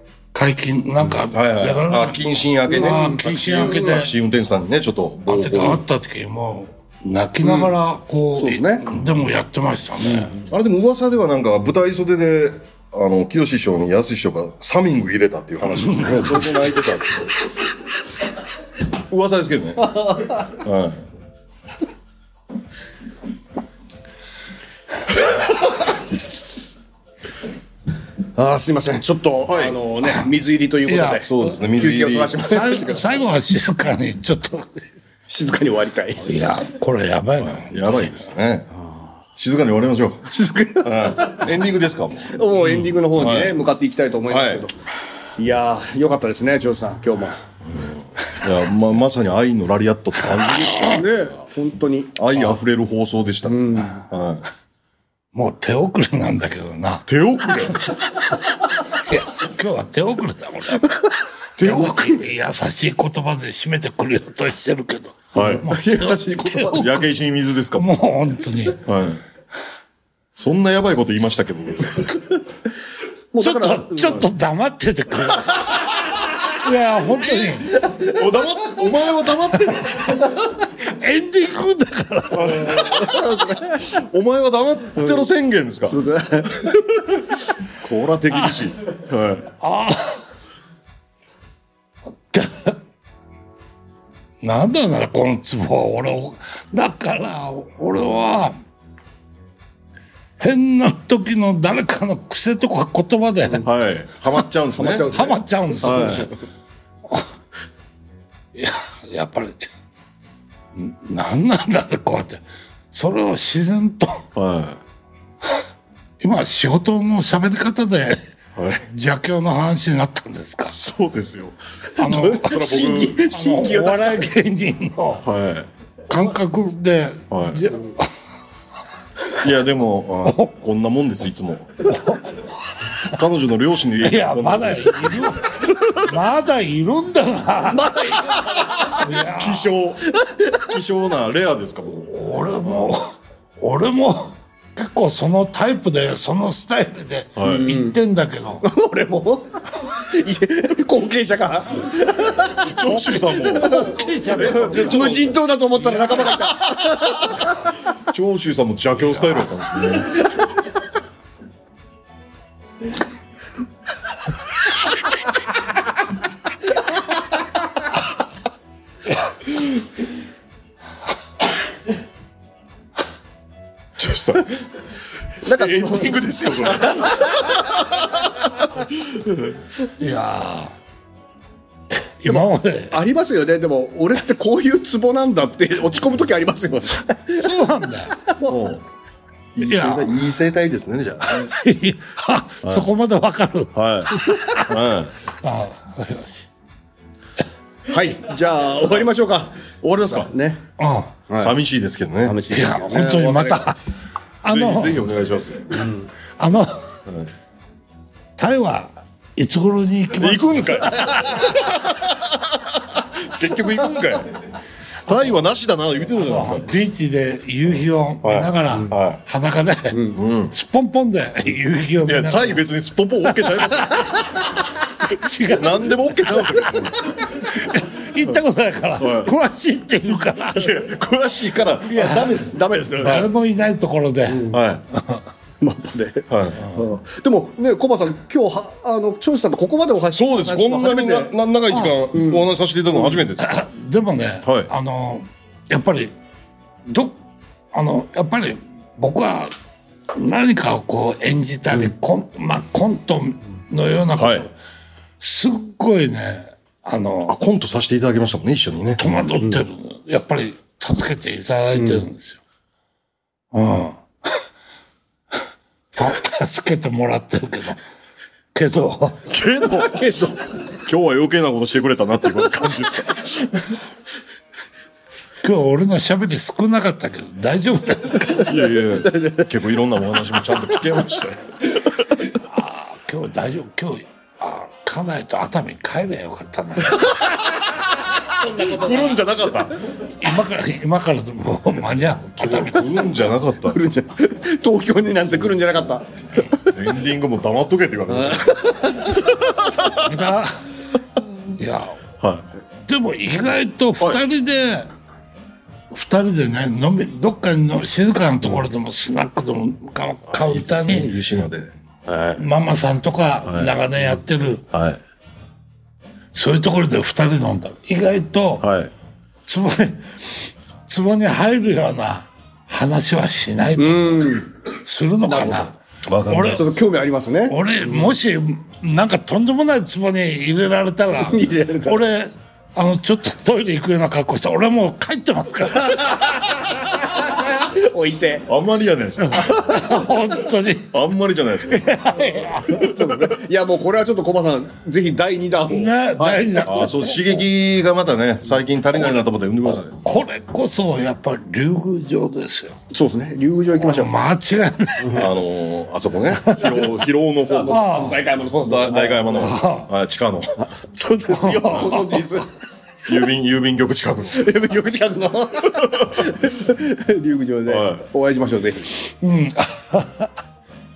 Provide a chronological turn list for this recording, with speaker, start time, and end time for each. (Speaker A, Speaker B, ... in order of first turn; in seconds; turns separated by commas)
Speaker A: 0.3-4.1, Speaker B: 1.3-5.8, Speaker C: 2.7-4.1, Speaker A: 5.3-10.3, Speaker C: 7.4-7.8, Speaker C: 8.4-8.9, Speaker C: 10.0-10.5, Speaker B: 10.5-17.2, Speaker A: 15.9-16.3, Speaker B: 19.1-19.9, Speaker C: 19.9-20.4, Speaker B: 20.5-21.0, Speaker C: 28.4-33.3, Speaker B: 29.5-29.8, Speaker A: 30.9-31.2, Speaker B: 31.2-32.4, Speaker A: 32.5-34.9, Speaker C: 35.3-36.4, Speaker A: 36.2-38.1, Speaker B: 37.4-38.7, Speaker B: 39.4-40.2, Speaker C: 40.3-41.5, Speaker B: 40.8-42.4, Speaker C: 42.3-44.8, Speaker B: 43.1-43.6, Speaker B: 44.3-44.7, Speaker C: 45.4-47.4, Speaker B: 47.7-51.3, Speaker A: 50.3-51.0, Speaker C: 50.7-52.1, Speaker B: 52.1-54.5, Speaker C: 53.5-54.0, Speaker A: 55.3-57.1, Speaker B: 57.1-57.9, Speaker A: 58.9-61.0, Speaker A: 61.6-66.9, Speaker B: 61.6-61.9, Speaker C: 61.6-62.1, Speaker B: 65.3-65.7, Speaker C: 65.4-67.1, Speaker B: 66.6-67.9, Speaker A: 67.7-68.8, Speaker B: 68.8-69.2, Speaker B: 70.4-72.2, Speaker C: 73.3-74.2, Speaker A: 73.4-75.9, Speaker A: 76.5-77.8, Speaker B: 77.4-80.1, Speaker A: 79.8-82.8, Speaker B: 82.3-86.0, Speaker C: 82.6-83.8, Speaker C: 85.0-85.2, Speaker C: 85.9-86.7, Speaker B: 86.6-87.1, Speaker B: 87.7-89.5, Speaker A: 89.6-90.2, Speaker A: 92.3-92.8, Speaker A: 94.4-98.5, Speaker A: 100.4-103.7, Speaker B: 103.6-106.3, Speaker C: 104.8-106.3, Speaker A: 105.0-106.3, Speaker A: 108.5-109.6, Speaker A: 110.8-114.2, Speaker B: 114.3-114.8, Speaker A: 116.2-118.2, Speaker B: 118.6-118.8, Speaker A: 118.8-120.8, Speaker B: 120.7-121.6, Speaker C: 122.0-124.3, Speaker A: 122.0-122.8, Speaker B: 122.4-123.2, Speaker A: 123.3-125.2, Speaker B: 125.2-125.7, Speaker A: 126.1-128.1, Speaker B: 127.3-127.7, Speaker B: 129.4-131.9, Speaker A: 130.2-130.5, Speaker A: 131.8-133.0, Speaker B: 133.1-136.0, Speaker A: 134.0-138.0, Speaker C: 137.7-138.9, Speaker A: 138.9-139.7, Speaker B: 139.2-140.0, Speaker C: 140.2-140.6, Speaker B: 140.6-142.1, Speaker A: 142.1-143.1, Speaker A: 143.6-148.7, Speaker B: 147.4-147.7, Speaker C: 147.4-148.0, Speaker C: 148.6-152.6, Speaker B: 152.6-155.4, Speaker A: 152.7-155.3, Speaker C: 153.5-157.4, Speaker B: 158.1-160.1, Speaker B: 174.0-174.6, Speaker C: 175.4-177.1, Speaker B: 175.6-178.2, Speaker B: 178.9-179.5, Speaker A: 179.8-180.7, Speaker A: 182.2-183.0, Speaker C: 182.3-187.5, Speaker A: 187.4-188.2, Speaker C: 188.3-188.6, Speaker B: 188.5-188.8, Speaker B: 189.6-191.5, Speaker A: 189.6-190.1, Speaker A: 191.2-194.8, Speaker B: 192.6-192.9, Speaker B: 193.8-195.1, Speaker A: 195.4-196.5, Speaker C: 197.9-200.6, Speaker B: 199.8-200.3, Speaker A: 200.8-201.1, Speaker C: 201.3-201.6, Speaker B: 201.4-202.4, Speaker C: 202.2-203.8, Speaker A: 202.5-203.8, Speaker A: 204.4-205.1, Speaker B: 204.5-205.9, Speaker A: 206.4-207.0, Speaker A: 208.4-211.3, Speaker B: 210.2-214.4, Speaker B: 215.1-216.7, Speaker A: 216.1-222.6, Speaker B: 218.2-219.2, Speaker C: 219.9-220.2, Speaker B: 220.1-220.5, Speaker B: 222.1-224.1, Speaker A: 223.2-224.3, Speaker A: 225.0-230.8, Speaker B: 225.6-227.5, Speaker B: 229.0-229.3, Speaker B: 230.5-232.6, Speaker C: 231.9-233.3, Speaker A: 233.0-235.2, Speaker C: 234.3-234.6, Speaker B: 234.5-234.8, Speaker C: 235.6-243.3, Speaker B: 236.3-236.7, Speaker B: 240.1-243.5, Speaker A: 243.4-246.1, Speaker B: 244.4-244.7, Speaker A: 246.9-247.1, Speaker A: 247.7-249.5, Speaker A: 250.1-254.5, Speaker B: 254.1-254.5, Speaker A: 255.2-257.4, Speaker B: 257.3-259.1, Speaker A: 259.0-262.4, Speaker C: 261.7-262.1, Speaker A: 263.5-264.0, Speaker A: 265.9-267.8, Speaker A: 268.5-269.2, Speaker B: 269.3-273.8, Speaker C: 269.7-270.5, Speaker A: 275.4-278.5, Speaker B: 278.4-281.9, Speaker C: 278.7-279.5, Speaker A: 282.2-287.5, Speaker B: 288.1-289.8, Speaker C: 288.4-289.1, Speaker A: 290.0-293.0, Speaker B: 292.4-293.8, Speaker C: 293.6-296.7, Speaker B: 296.7-300.0, Speaker C: 298.1-299.3, Speaker A: 300.0-300.5, Speaker A: 301.6-301.9, Speaker A: 302.9-304.9, Speaker A: 305.9-311.1, Speaker B: 310.3-312.4, Speaker A: 312.4-314.6, Speaker B: 313.4-313.8, Speaker B: 314.7-315.0, Speaker A: 316.3-318.7, Speaker B: 318.6-318.9, Speaker A: 319.5-326.6, Speaker C: 323.8-324.5, Speaker C: 325.3-325.7, Speaker B: 326.1-326.8, Speaker C: 326.5-328.1, Speaker A: 327.5-336.6, Speaker C: 331.1-332.1, Speaker C: 336.1-338.5, Speaker B: 338.5-339.8, Speaker A: 339.3-340.9, Speaker B: 340.9-343.2, Speaker A: 341.7-342.9, Speaker C: 342.7-346.8, Speaker A: 345.7-347.3, Speaker B: 346.6-350.0, Speaker A: 350.0-352.8, Speaker C: 352.9-354.1, Speaker A: 353.8-355.3, Speaker B: 355.1-357.8, Speaker C: 356.6-359.6, Speaker A: 357.7-358.2, Speaker B: 358.6-360.6, Speaker A: 359.4-359.9, Speaker C: 360.7-362.5, Speaker A: 361.3-362.2, Speaker B: 363.1-364.5, Speaker C: 364.3-369.0, Speaker B: 367.6-368.1, Speaker A: 369.2-370.3